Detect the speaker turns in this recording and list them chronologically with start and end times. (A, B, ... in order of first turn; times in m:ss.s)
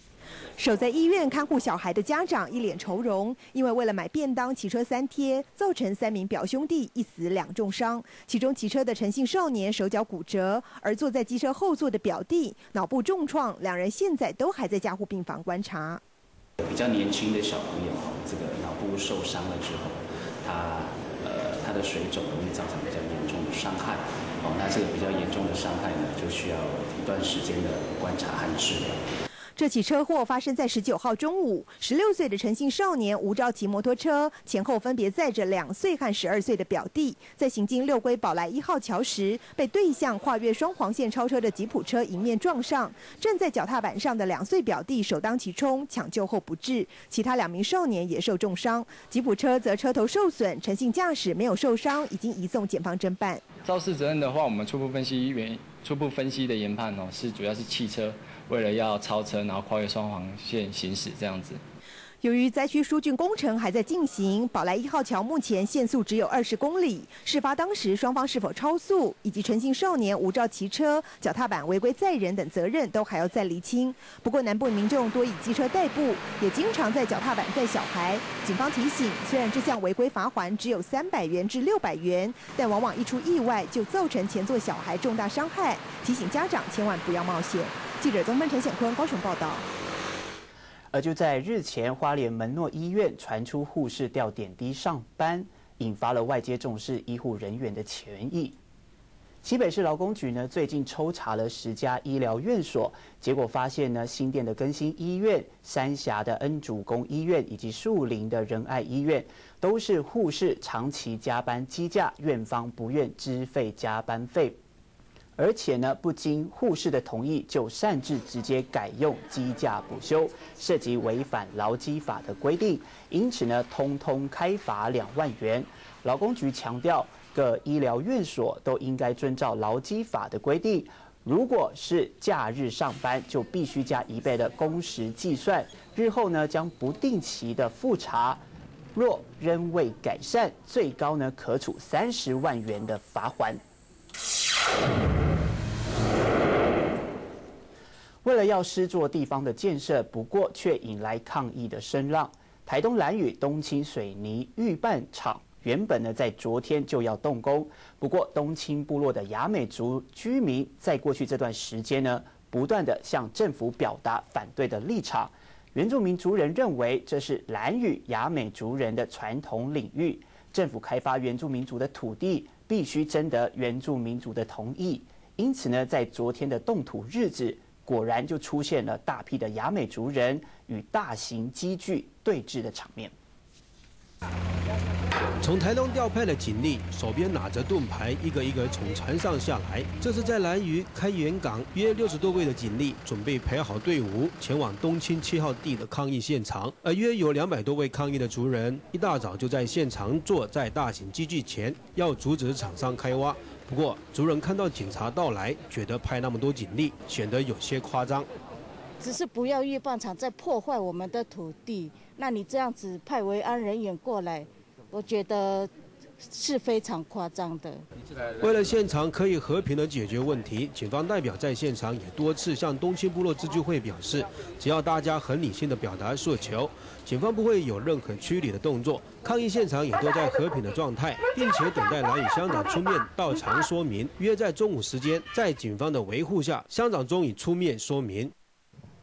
0:00.6-0:16.0 A
0:16.6-0:29.0 B
0:29.6-0:53.4 A
0:53.6-1:01.6 C
1:02.2-1:29.7 A
1:30.9-1:38.6 D
1:39.4-1:54.6 D
1:55.4-2:18.4 D
2:18.9-2:23.6 D
2:28.2-3:03.1 D
3:05.4-3:28.3 E
3:29.0-3:37.8 F
3:38.4-3:58.3 E